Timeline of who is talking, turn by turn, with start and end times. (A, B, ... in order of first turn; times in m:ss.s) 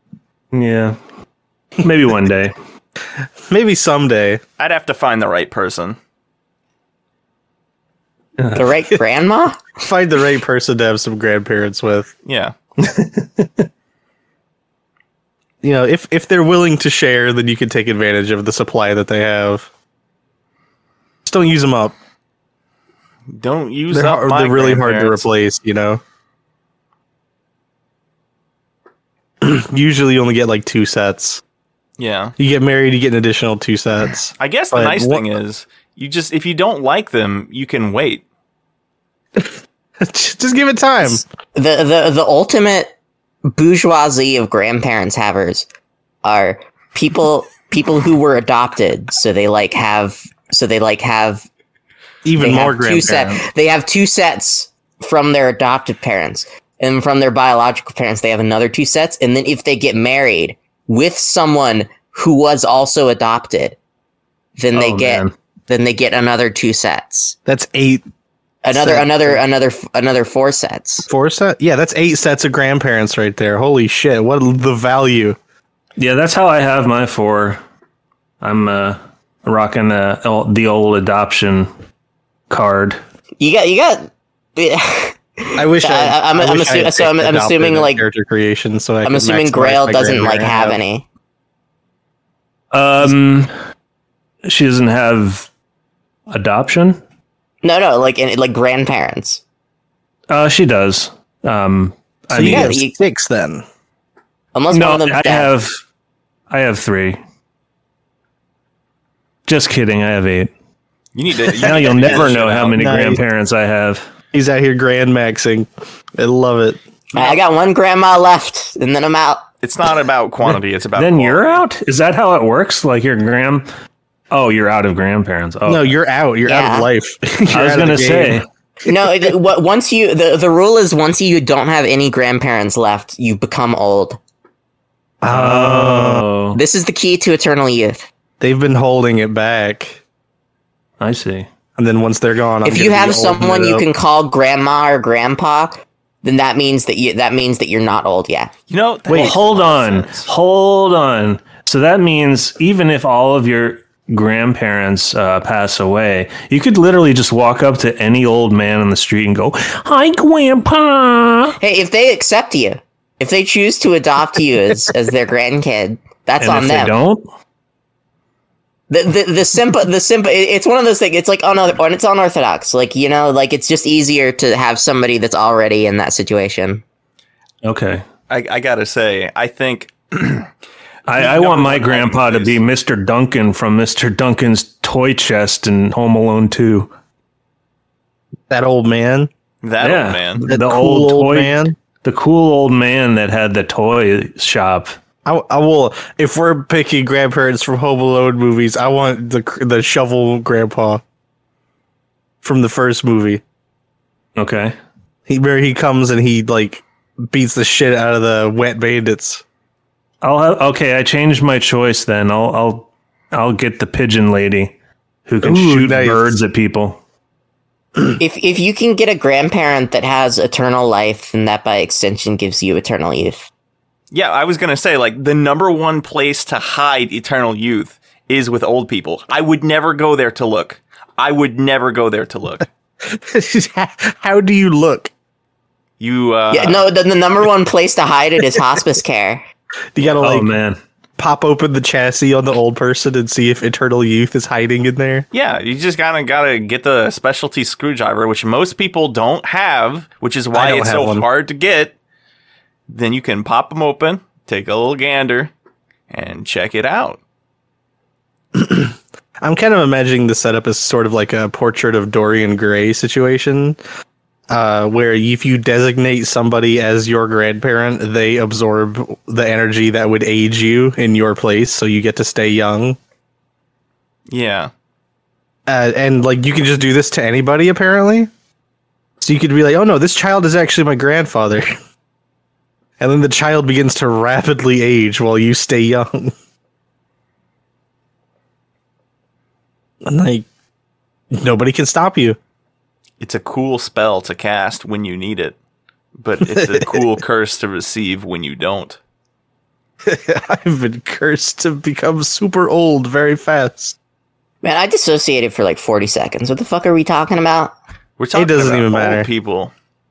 0:00.5-0:01.0 A
0:01.8-0:02.5 A
0:03.5-0:04.4 B
0:04.6-0:06.0 C
0:08.4-0:08.7 A
0:08.5-0:09.6 D
0:09.8-0:12.1 B
0:12.2-0:12.5 C
0:12.8-0:13.7 A
0:15.6-0:19.7 B
0:21.2-0:21.9 B
0:23.3-0:25.3 C
0:23.9-0:26.0 B
0:29.4-0:31.4 B
0:32.0-0:32.3 C
0:32.4-0:35.2 B
0:34.4-0:38.2 C
0:40.0-0:41.2 B
0:41.1-0:42.9 D
0:43.4-0:45.6 D
0:46.2-0:51.4 D
0:52.2-0:53.4 B
0:52.4-1:03.8 D
1:04.6-1:07.4 D
1:04.7-1:05.3 A
1:07.4-1:08.0 B
1:08.6-1:11.1 D
1:08.7-1:09.4 B
1:11.1-1:15.4 B
1:16.0-1:17.6 A
1:18.4-1:21.7 A
1:22.5-1:23.0 A
1:23.4-1:28.0 D
1:25.6-1:30.8 B
1:29.0-1:31.0 D
1:32.7-1:33.5 A
1:34.4-1:35.5 A
1:36.3-1:37.0 A
1:37.6-1:39.4 D
1:40.3-1:42.8 A
1:42.3-1:43.6 B
1:42.4-1:42.9 D
1:44.5-1:45.5 D
1:44.7-1:45.8 A
1:46.5-1:47.2 A
1:49.4-1:50.5 A
1:51.1-1:52.8 C
1:51.6-1:54.1 A
1:51.6-1:52.2 B
1:52.8-1:53.2 B
1:54.3-1:56.8 B
1:57.1-1:59.4 D
1:59.6-2:01.6 C
2:01.0-2:03.7 A
2:04.3-2:05.9 A
2:05.6-2:08.4 B
2:06.4-2:06.9 D
2:07.5-2:08.4 A
2:08.8-2:14.2 D
2:15.2-2:16.2 B
2:15.3-2:16.6 A
2:16.5-2:18.0 D
2:18.4-2:20.0 B
2:21.0-2:21.5 A
2:21.8-2:23.8 B
2:22.6-2:28.5 D
2:28.7-2:30.3 C
2:29.1-2:29.4 B
2:29.1-2:41.6 A
2:41.6-2:46.9 D
2:46.4-2:47.3 A
2:48.9-2:56.8 D
2:57.6-2:58.0 A
2:58.3-3:00.5 C
3:01.1-3:06.9 A
3:01.1-3:02.6 C
3:08.5-3:09.3 B
3:09.6-3:10.4 C
3:09.8-3:15.0 A
3:10.4-3:11.7 B
3:15.2-3:21.0 B
3:22.4-3:23.4 B
3:24.4-3:24.7 A
3:25.3-3:29.4 B
3:30.2-3:34.7 A
3:35.2-3:37.0 A
3:35.4-3:36.4 B
3:38.2-3:43.5 D
3:44.1-3:52.6 C
3:53.0-3:55.1 B
3:56.0-3:56.8 C
3:56.5-3:59.4 D
3:59.9-4:00.6 B
4:00.2-4:00.8 A
4:01.2-4:05.2 B
4:05.3-4:12.0 C
4:10.5-4:11.2 B
4:12.9-4:15.5 C
4:16.1-4:17.2 C
4:18.5-4:23.8 B
4:24.5-4:33.0 B
4:34.3-4:34.7 C
4:35.7-4:38.3 B
4:39.2-4:41.7 B
4:43.0-4:46.3 B
4:50.0-4:50.4 B
4:51.3-4:52.4 B
4:53.2-4:55.6 C
4:56.2-4:59.0 C
4:56.4-4:57.0 B
5:00.0-5:04.0 B
5:04.6-5:07.7 D
5:08.2-5:09.7 C
5:08.3-5:09.3 B